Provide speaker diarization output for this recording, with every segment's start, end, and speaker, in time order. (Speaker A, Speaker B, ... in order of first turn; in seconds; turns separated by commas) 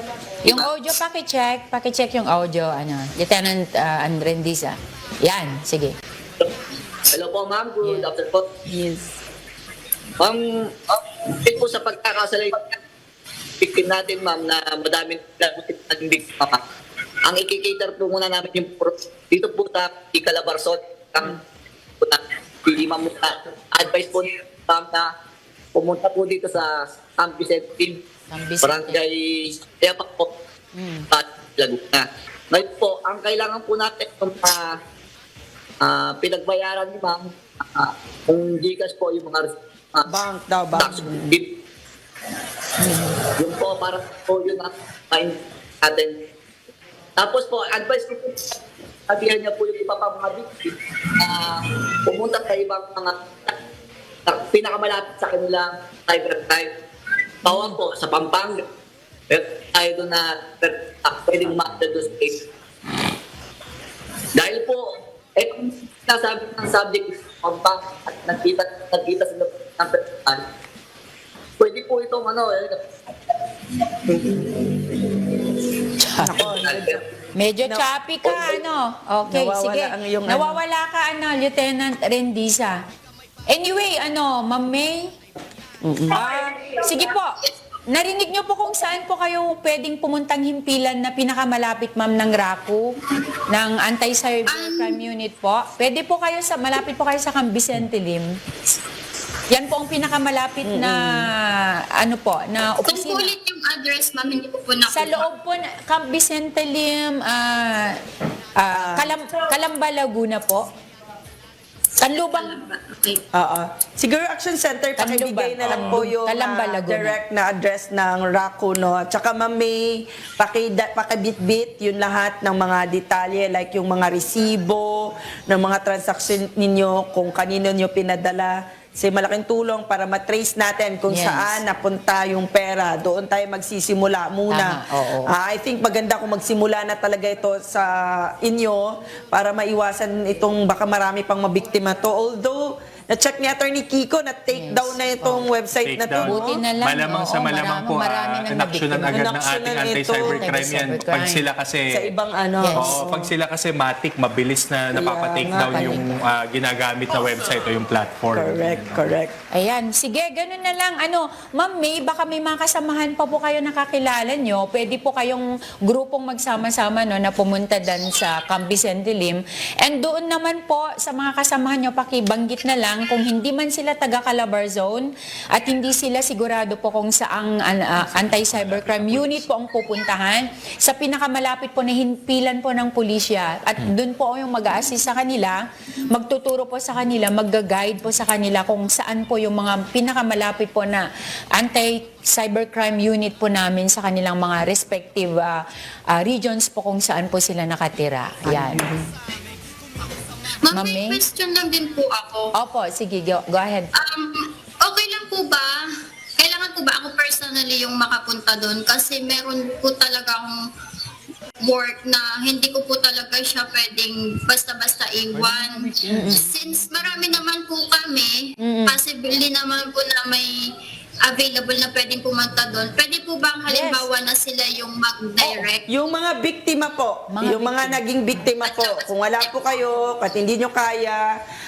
Speaker A: 0.4-0.7, Speaker B: 0.4-5.9, Speaker A: 7.1-8.4, Speaker B: 7.8-8.1, Speaker C: 8.7-9.1, Speaker A: 10.2-12.8, Speaker A: 13.6-16.6, Speaker A: 17.3-21.4, Speaker A: 22.0-25.1, Speaker A: 25.7-28.0, Speaker B: 28.3-29.1, Speaker A: 28.6-30.3, Speaker B: 30.7-31.1, Speaker A: 31.1-34.7, Speaker A: 35.8-40.1, Speaker C: 40.1-41.4, Speaker A: 40.8-41.5, Speaker A: 43.2-46.1, Speaker A: 47.2-53.5, Speaker A: 54.3-56.7, Speaker A: 57.4-58.6, Speaker A: 59.3-62.4, Speaker A: 64.3-70.4, Speaker A: 71.6-72.8, Speaker A: 73.3-74.5, Speaker B: 76.0-76.4, Speaker C: 76.2-77.0, Speaker A: 76.4-77.0, Speaker B: 77.3-82.8, Speaker C: 77.6-78.6, Speaker C: 79.3-80.6, Speaker B: 83.5-85.1, Speaker C: 85.8-86.6, Speaker D: 86.2-87.5, Speaker B: 86.8-87.4, Speaker B: 87.9-92.9, Speaker B: 93.5-98.4, Speaker D: 94.5-95.0, Speaker B: 99.5-103.3, Speaker C: 100.6-101.2, Speaker D: 102.8-105.2, Speaker B: 104.9-108.0, Speaker B: 108.6-110.7, Speaker C: 108.7-109.2, Speaker B: 112.0-112.5, Speaker D: 112.3-113.2, Speaker C: 113.3-146.6, Speaker B: 115.0-117.2, Speaker B: 131.1-131.6, Speaker B: 134.5-135.3, Speaker B: 144.5-145.5, Speaker E: 145.8-152.1, Speaker B: 146.2-149.2, Speaker C: 149.1-150.4, Speaker B: 150.2-151.4, Speaker C: 151.9-153.3, Speaker B: 152.6-153.0, Speaker E: 152.7-159.1, Speaker C: 154.9-156.1, Speaker B: 155.7-156.1, Speaker C: 158.3-159.3, Speaker B: 159.5-185.6, Speaker E: 178.2-179.4, Speaker B: 186.1-191.0, Speaker B: 191.6-198.8, Speaker C: 198.4-199.0, Speaker D: 200.6-202.5, Speaker B: 200.7-201.2, Speaker B: 202.5-203.9, Speaker D: 203.9-205.8, Speaker D: 206.4-210.6, Speaker D: 211.6-220.5, Speaker B: 215.8-216.5, Speaker C: 216.1-216.4, Speaker B: 218.6-219.0, Speaker D: 221.3-225.8, Speaker B: 223.7-224.1, Speaker C: 225.9-231.3, Speaker B: 227.3-228.0, Speaker D: 228.6-229.7